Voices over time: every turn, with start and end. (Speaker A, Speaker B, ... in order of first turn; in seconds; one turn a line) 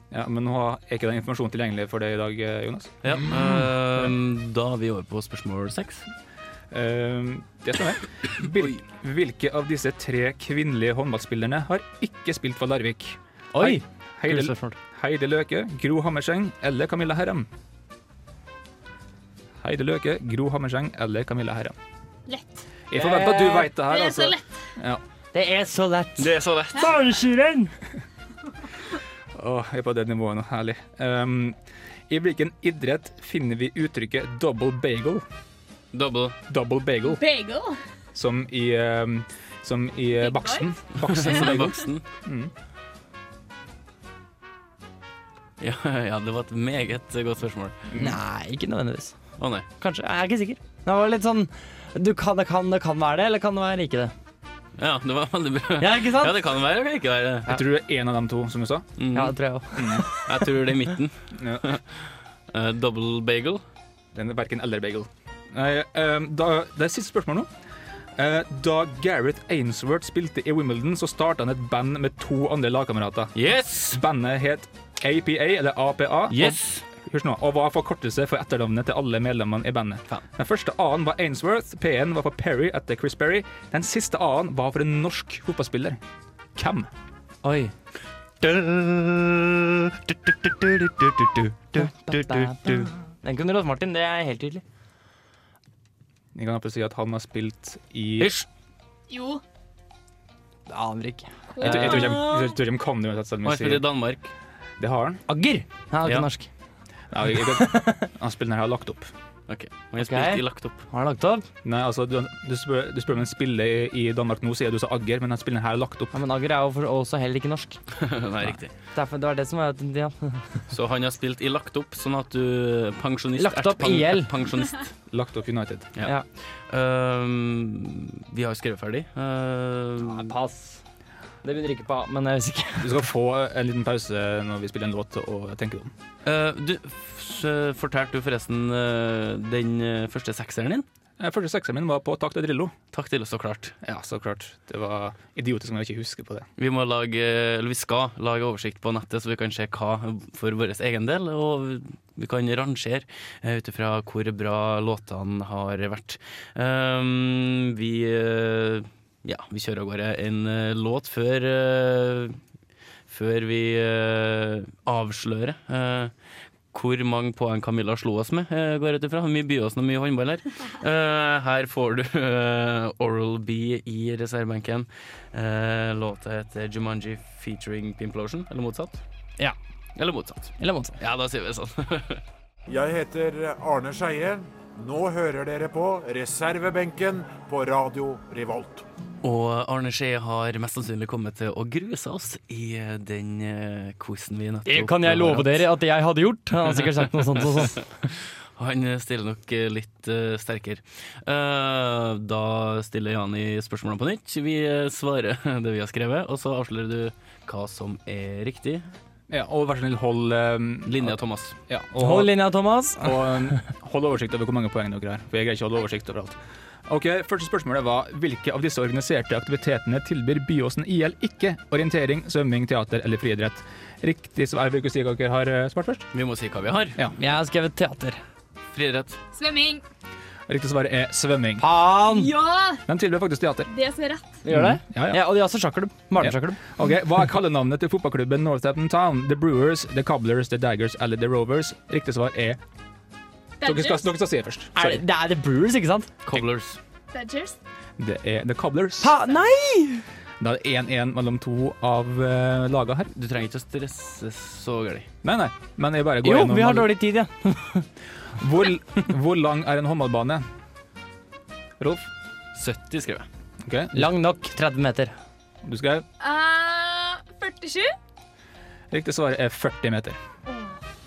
Speaker A: 0.1-4.1
Speaker B: 3.0-6.1
Speaker A: 6.7-17.5
Speaker C: 13.5-14.8
Speaker A: 19.6-21.8
Speaker D: 22.3-22.6
Speaker A: 22.9-25.0
Speaker C: 22.9-23.7
Speaker D: 23.8-24.5
Speaker C: 25.3-27.7
Speaker B: 26.2-26.9
Speaker A: 29.3-31.6
Speaker A: 32.1-35.2
Speaker B: 35.9-36.3
Speaker A: 36.5-37.2
Speaker D: 37.0-37.8
Speaker A: 38.1-42.5
Speaker D: 40.2-41.3
Speaker B: 41.0-42.0
Speaker B: 45.6-47.8
Speaker A: 47.9-48.2
Speaker C: 48.0-54.1
Speaker B: 49.4-49.6
Speaker B: 54.8-57.5
Speaker C: 55.8-56.3
Speaker A: 57.5-59.0
Speaker B: 59.0-59.4
Speaker C: 59.1-60.2
Speaker A: 59.8-60.1
Speaker B: 60.2-63.6
Speaker A: 61.3-61.6
Speaker A: 64.1-67.5
Speaker A: 68.2-86.0
Speaker B: 73.3-74.0
Speaker B: 76.3-76.8
Speaker A: 86.5-86.9
Speaker C: 87.4-87.7
Speaker B: 88.4-92.9
Speaker C: 91.8-94.6
Speaker A: 96.3-98.3
Speaker B: 98.2-98.5
Speaker D: 99.1-99.4
Speaker C: 100.7-102.3
Speaker D: 101.5-102.2
Speaker A: 101.6-103.8
Speaker B: 101.6-102.2
Speaker B: 103.4-104.3
Speaker A: 104.8-105.2
Speaker C: 105.3-106.5
Speaker A: 107.1-109.1
Speaker C: 107.3-108.1
Speaker B: 109.5-110.8
Speaker C: 110.0-111.5
Speaker A: 111.6-116.1
Speaker C: 116.1-117.8
Speaker B: 118.0-118.7
Speaker C: 118.9-120.6
Speaker B: 120.7-124.9
Speaker C: 123.4-124.3
Speaker A: 125.1-125.9
Speaker B: 126.0-130.3
Speaker C: 130.0-130.8
Speaker C: 131.4-133.0
Speaker A: 132.8-135.9
Speaker B: 136.2-140.8
Speaker A: 141.2-142.7
Speaker B: 142.9-143.7
Speaker A: 143.8-146.5
Speaker B: 146.6-162.4
Speaker B: 163.1-166.1
Speaker B: 166.7-179.0
Speaker B: 179.9-182.2
Speaker C: 180.6-180.9
Speaker E: 182.7-188.8
Speaker B: 189.2-195.6
Speaker C: 194.7-197.8
Speaker B: 197.4-208.9
Speaker A: 209.3-211.2
Speaker B: 210.8-211.6
Speaker A: 211.7-212.3
Speaker C: 212.0-213.4
Speaker A: 213.0-226.1
Speaker B: 226.1-227.0
Speaker C: 227.2-228.2
Speaker B: 228.7-229.2
Speaker D: 229.3-229.8
Speaker A: 230.5-231.6
Speaker C: 231.6-232.3
Speaker D: 232.1-232.8
Speaker A: 232.9-233.7
Speaker D: 233.7-234.4
Speaker C: 234.4-236.6
Speaker A: 234.5-235.2
Speaker A: 236.2-242.6
Speaker D: 243.6-244.0
Speaker A: 243.6-245.0
Speaker C: 244.7-246.1
Speaker B: 246.2-246.8
Speaker D: 247.1-247.6
Speaker A: 248.0-249.1
Speaker C: 249.0-250.0
Speaker A: 250.4-253.1
Speaker B: 253.1-255.1
Speaker A: 255.2-256.9
Speaker C: 256.2-257.9
Speaker A: 258.3-260.5
Speaker A: 261.8-262.1
Speaker B: 262.5-263.3
Speaker A: 263.6-264.1
Speaker C: 263.9-265.1
Speaker A: 265.6-266.1
Speaker D: 266.2-267.9
Speaker A: 268.9-270.2
Speaker D: 270.5-270.8